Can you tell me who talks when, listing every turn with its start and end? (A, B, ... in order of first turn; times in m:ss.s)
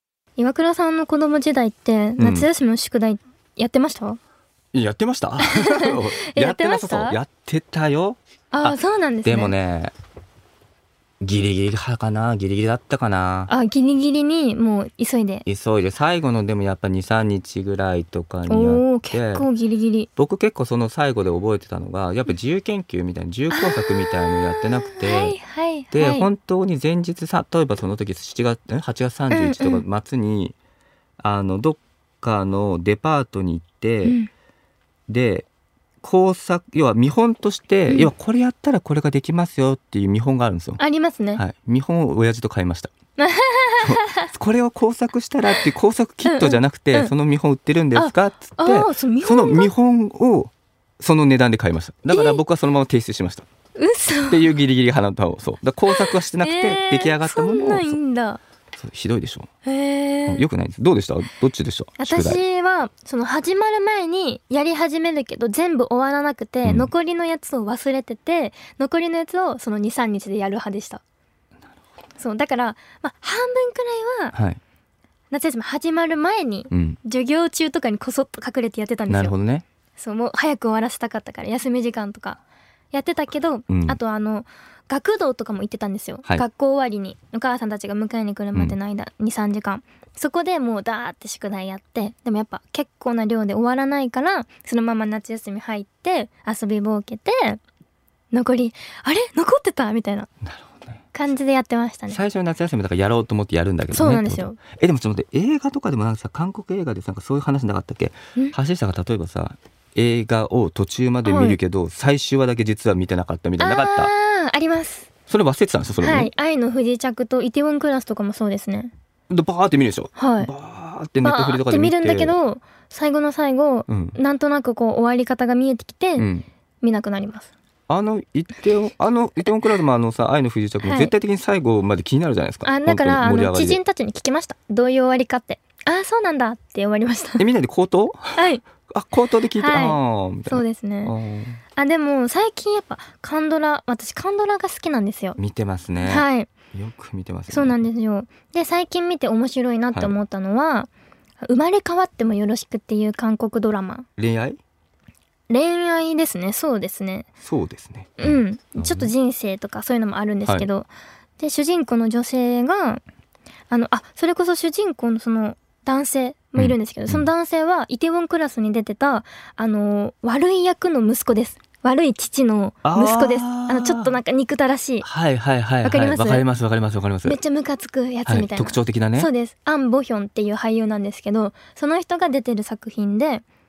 0:00.4-0:04.2 A
0:02.2-0:02.5 B
0:04.7-0:09.9 B
0:05.4-0:07.2 A
0:08.5-0:09.5 A
0:11.2-0:13.5 B
0:13.5-0:15.4 A
0:15.4-0:19.5 B
0:18.5-0:20.1 A
0:20.2-0:25.4 B
0:23.5-0:26.3 A
0:25.9-0:30.6 B
0:29.3-0:29.8 A
0:31.2-0:34.2 B
0:34.0-0:34.3 A
0:35.1-0:35.5 B
0:36.0-0:40.8 B
0:40.8-0:41.4 A
0:41.3-0:42.9 B
0:43.2-0:44.3 A
0:43.8-0:53.4 B
0:46.2-0:47.1 A
0:47.9-0:49.7 A
0:52.1-0:52.4 A
0:53.8-0:54.5 A
0:54.3-0:58.0 B
0:55.9-0:58.4 A
0:58.8-0:59.5 B
0:59.6-1:00.5 A
1:00.3-1:02.4 B
1:02.0-1:11.0 A
1:06.6-1:06.9 B
1:12.2-1:14.4 A
1:14.3-1:14.6 B
1:15.3-1:19.3 A
1:16.7-1:17.0 B
1:19.1-1:19.6 B
1:20.0-1:22.4 A
1:22.9-1:37.6 A
1:23.7-1:24.0 B
1:38.3-1:40.3 A
1:40.4-1:41.0 B
1:41.1-1:42.2 A
1:42.1-1:54.1 B
1:43.9-1:44.6 A
1:51.2-1:51.6 A
1:53.6-1:55.1 A
1:55.3-1:56.3 B
1:56.0-1:58.9 A
1:59.3-2:02.4 B
2:00.1-2:00.5 A
2:01.2-2:06.3 A
2:03.9-2:04.2 B
2:06.2-2:06.5 B
2:06.8-2:07.5 A
2:07.9-2:13.8 B
2:10.8-2:11.1 A
2:12.6-2:17.4 A
2:17.4-2:21.6 B
2:18.4-2:18.6 A
2:19.6-2:21.1 A
2:21.8-2:25.4 A
2:25.4-2:27.8 B
2:26.0-2:26.5 A
2:27.5-2:30.9 A
2:31.4-2:34.1 A
2:34.2-2:34.6 B
2:35.5-2:37.3 A
2:37.4-2:39.1 B
2:38.2-2:43.0 A
2:43.7-2:55.1 A
2:46.6-2:47.3 B
2:52.8-2:54.1 B
2:55.0-2:57.4 B
2:55.8-2:56.4 A
2:57.2-3:03.4 A
2:58.2-2:59.3 B